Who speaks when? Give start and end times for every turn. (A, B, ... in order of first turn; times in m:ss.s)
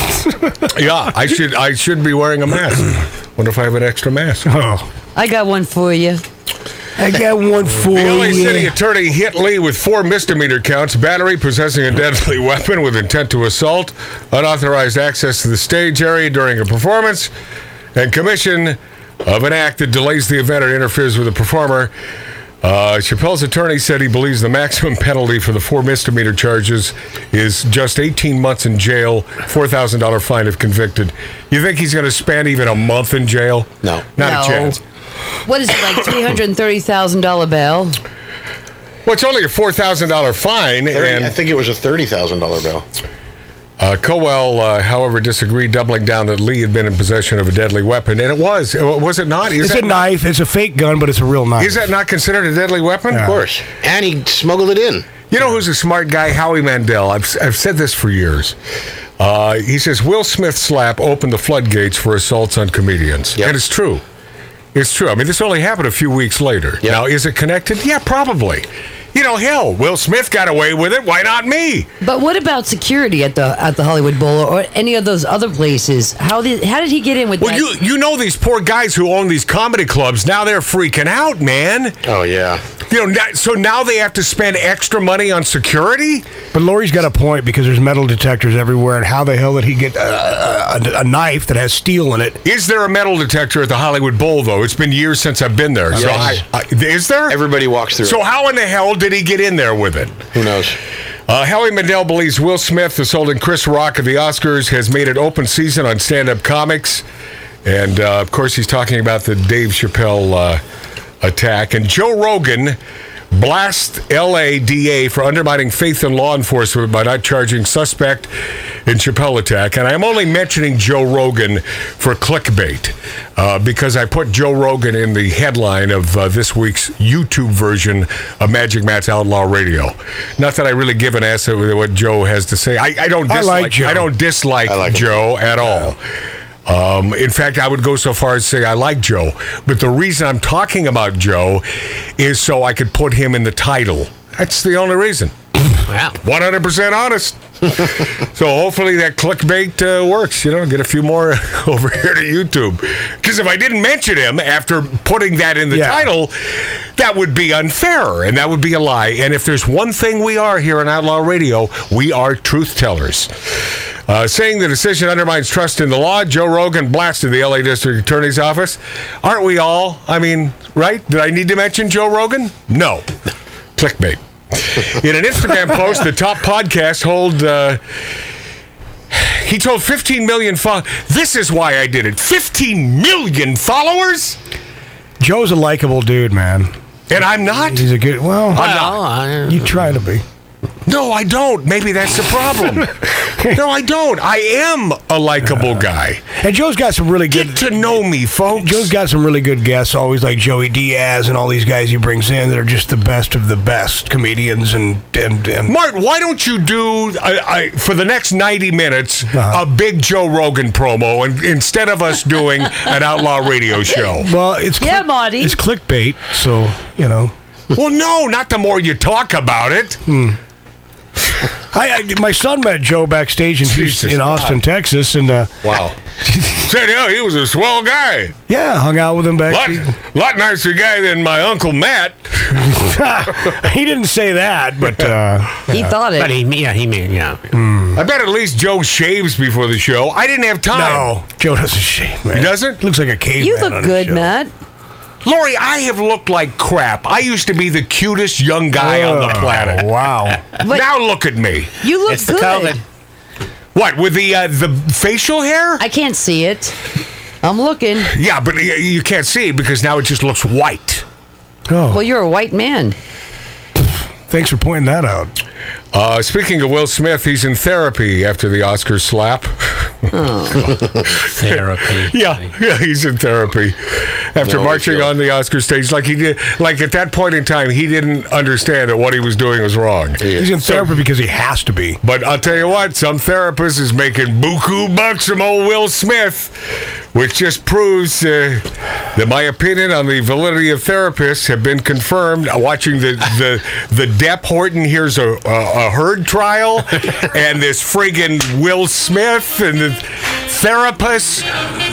0:00.6-0:04.5 A
0:04.4-0:04.9 B
0:05.1-0:06.2 C
0:07.0-0:08.7 B
0:07.9-0:17.3 A
0:17.9-0:21.9 A
0:22.6-0:34.8 A
0:34.2-0:34.8 C
0:35.4-0:38.0 C
0:39.0-0:41.3 A
0:40.9-0:42.8 D
0:43.8-0:50.0 A
0:49.6-0:51.8 B
0:51.6-0:53.4 A
0:53.2-0:55.2 D
0:55.3-0:58.6 A
0:59.2-1:04.0 A
1:04.7-1:11.9 A
1:12.0-1:17.6 C
1:17.4-1:22.0 A
1:22.0-1:22.6 D
1:22.9-1:26.3 A
1:26.5-1:32.4 B
1:32.4-1:37.4 A
1:35.9-1:36.4 D
1:35.9-1:36.3 B
1:37.3-1:38.2 D
1:38.0-1:40.2 A
1:40.3-1:40.8 D
1:41.3-1:47.0 A
1:47.6-1:50.6 A
1:51.2-1:52.8 A
1:53.3-1:58.3 A
1:58.8-2:16.0 A
2:13.3-2:14.1 B
2:14.7-2:15.4 D
2:16.6-2:25.3 A
2:25.9-2:26.2 E
2:26.2-2:53.1 A
2:35.7-2:36.0 B
2:53.8-2:57.8 A
2:59.1-3:04.4 A
3:05.2-3:06.7 B
3:07.1-3:07.9 A
3:07.7-3:08.8 B
3:08.5-3:09.0 A
3:08.5-3:09.7 E
3:09.4-3:10.2 B
3:10.8-3:16.2 A
3:16.4-3:17.7 B
3:17.3-3:18.9 A
3:18.5-3:25.7 B
3:25.7-3:34.3 A
3:29.3-3:29.6 B
3:34.2-3:37.3 B
3:34.8-3:35.6 C
3:37.7-3:40.0 A
3:40.1-3:40.4 B
3:41.7-3:45.5 B
3:43.6-3:44.6 A
3:45.6-3:46.0 A
3:46.5-3:48.4 A
3:48.5-3:49.9 B
3:49.5-3:52.7 A
3:52.6-3:55.9 B
3:55.7-3:56.3 C
3:56.1-3:57.5 E
3:57.5-3:58.0 B
3:57.9-4:01.1 A
4:00.7-4:04.3 B
4:02.3-4:02.8 A
4:03.4-4:04.5 C
4:05.2-4:09.9 A
4:08.8-4:10.4 B
4:10.6-4:11.7 A
4:10.6-4:10.9 C
4:11.8-4:12.8 C
4:12.0-4:12.8 E
4:13.7-4:15.8 A
4:15.8-4:16.7 C
4:17.4-4:18.1 C
4:18.1-4:21.0 A
4:21.7-4:22.0 B
4:21.9-4:22.9 C
4:24.3-4:25.3 B
4:25.9-4:30.1 A
4:30.1-4:30.7 C
4:31.2-4:32.5 E
4:31.4-4:40.9 A
4:34.4-4:35.1 D
4:40.2-4:40.5 D
4:40.3-4:42.0 B
4:42.0-5:01.5 A